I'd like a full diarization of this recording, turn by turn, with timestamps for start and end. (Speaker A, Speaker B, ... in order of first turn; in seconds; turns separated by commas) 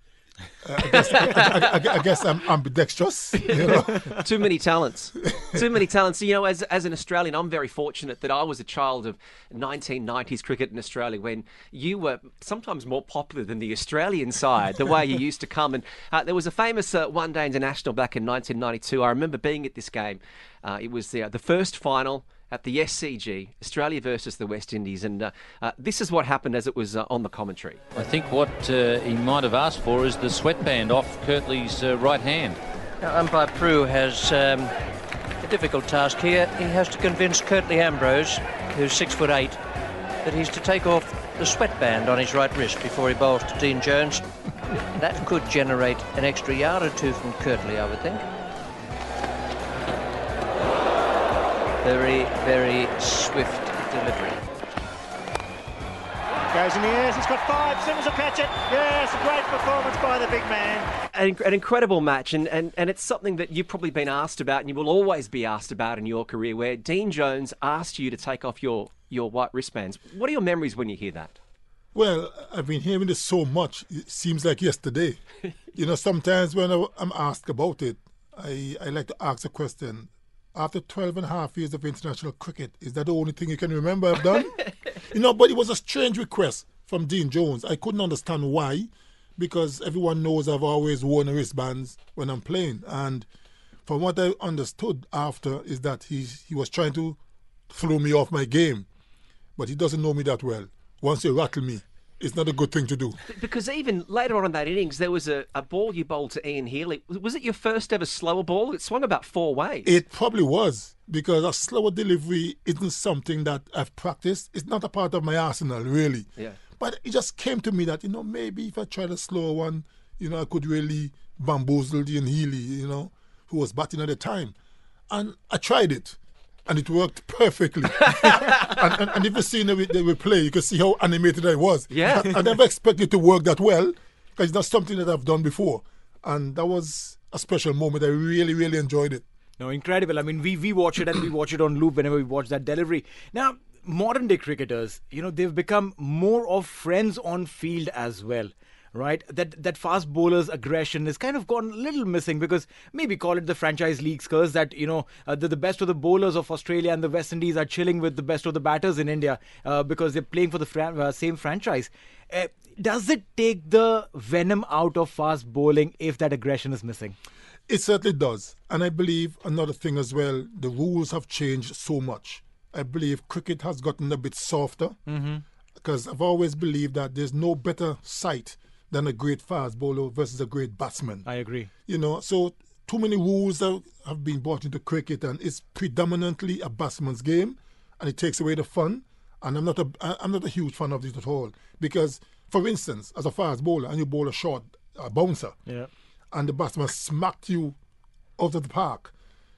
Speaker A: 0.6-4.1, Speaker B: 0.8-1.6, Speaker B: 3.4-28.0, Speaker C: 27.9-32.6, Speaker D: 33.0-34.7, Speaker D: 35.4-39.6, Speaker D: 40.2-44.3, Speaker D: 45.0-48.2, Speaker D: 51.8-54.5, Speaker E: 56.5-60.9, Speaker B: 61.1-71.4, Speaker A: 71.9-75.2, Speaker A: 75.7-93.3, Speaker A: 93.9-97.2, Speaker A: 97.7-98.9, Speaker A: 99.6-103.2, Speaker B: 103.3-109.9, Speaker A: 109.8-124.5, Speaker A: 125.1-139.2, Speaker B: 131.9-132.3, Speaker F: 139.6-167.2, Speaker A: 167.7-175.0, Speaker F: 175.1-175.4, Speaker A: 175.8-181.3, Speaker F: 181.2-181.7, Speaker A: 181.9-195.6, Speaker A: 196.3-197.8, Speaker A: 198.4-199.1